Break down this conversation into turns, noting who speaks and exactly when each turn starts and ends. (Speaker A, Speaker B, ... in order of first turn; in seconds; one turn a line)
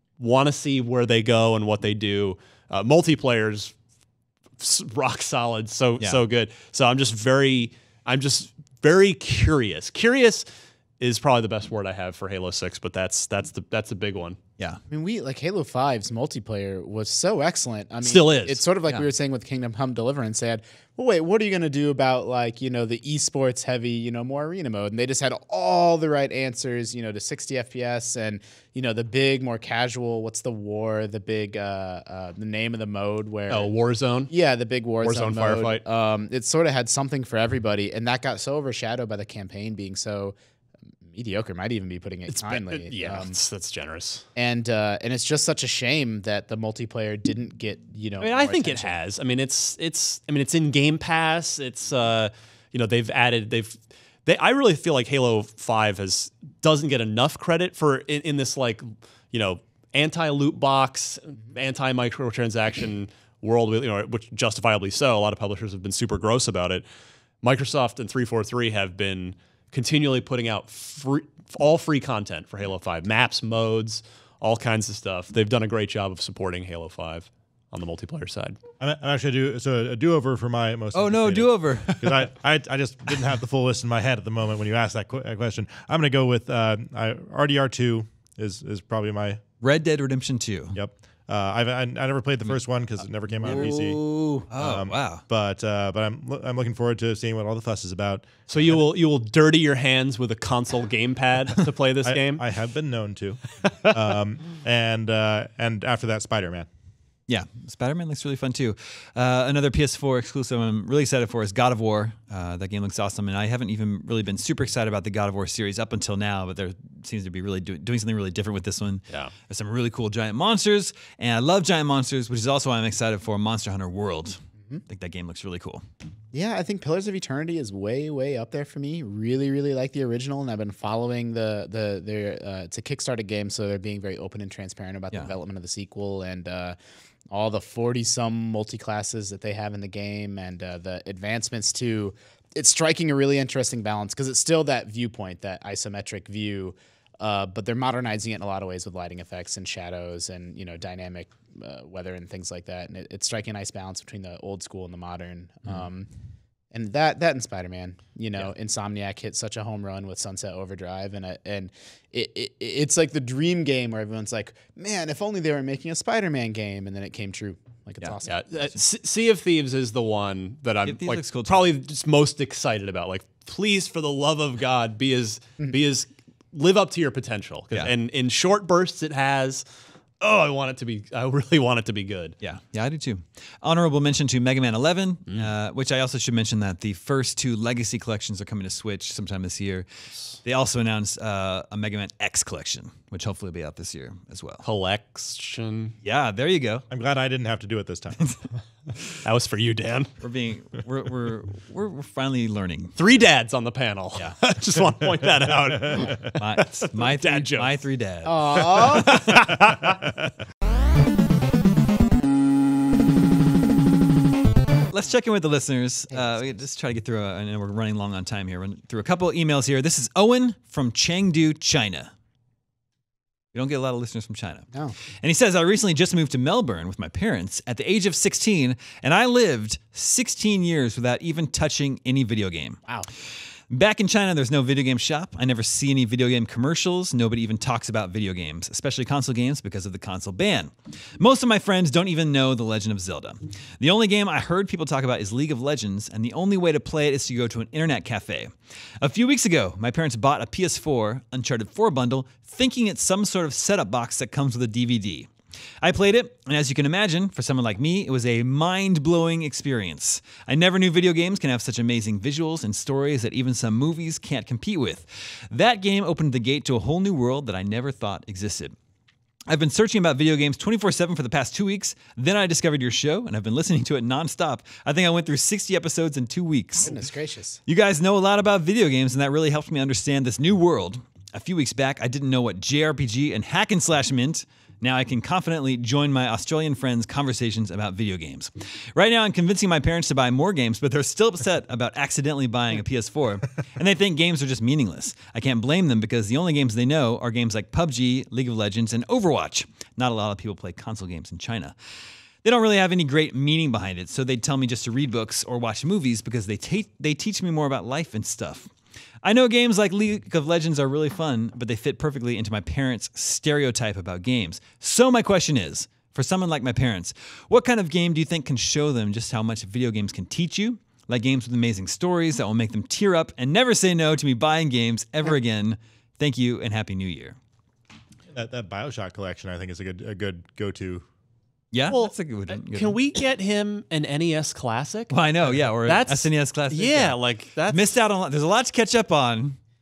Speaker A: 0.2-3.7
Speaker A: 4.6-10.4
Speaker A: 11.0-14.4
Speaker B: 14.9-33.7
Speaker A: 18.0-18.6
Speaker A: 33.5-34.3
Speaker B: 34.3-40.3
Speaker A: 35.0-35.8
Speaker B: 41.0-43.3
Speaker A: 42.3-44.2
Speaker B: 44.4-48.9
Speaker A: 48.2-66.8
Speaker A: 67.4-78.6
Speaker C: 78.8-89.4
Speaker D: 80.9-82.3
Speaker D: 89.6-90.8
Speaker C: 90.7-94.0
Speaker D: 93.4-95.2
Speaker B: 93.5-94.3
Speaker C: 94.6-98.7
Speaker A: 98.5-102.5
Speaker C: 102.0-106.7
Speaker D: 107.3-125.8
Speaker B: 126.3-136.8
Speaker B: 137.3-156.1
Speaker B: 156.7-168.7
Speaker A: 168.2-179.6
Speaker D: 170.8-171.7
Speaker A: 180.2-182.3
Speaker D: 182.4-189.8
Speaker D: 190.4-194.6
Speaker A: 194.6-196.0
Speaker D: 196.0-196.8
Speaker C: 196.9-198.2
Speaker A: 199.2-200.1
Speaker D: 200.2-202.9
Speaker A: 202.9-206.3
Speaker C: 205.7-206.2
Speaker D: 206.3-209.4
Speaker A: 206.8-207.8
Speaker B: 208.2-209.4
Speaker A: 208.8-210.0
Speaker D: 214.9-222.1
Speaker D: 223.5-232.8
Speaker D: 233.7-268.8
Speaker D: 269.5-277.0
Speaker B: 276.8-277.6
Speaker D: 277.6-301.7
Speaker D: 302.4-308.7
Speaker D: 309.2-327.4
Speaker C: 328.3-331.1
Speaker D: 331.7-333.0
Speaker A: 331.9-335.1
Speaker D: 335.1-337.2
Speaker A: 335.8-338.0
Speaker D: 337.7-339.6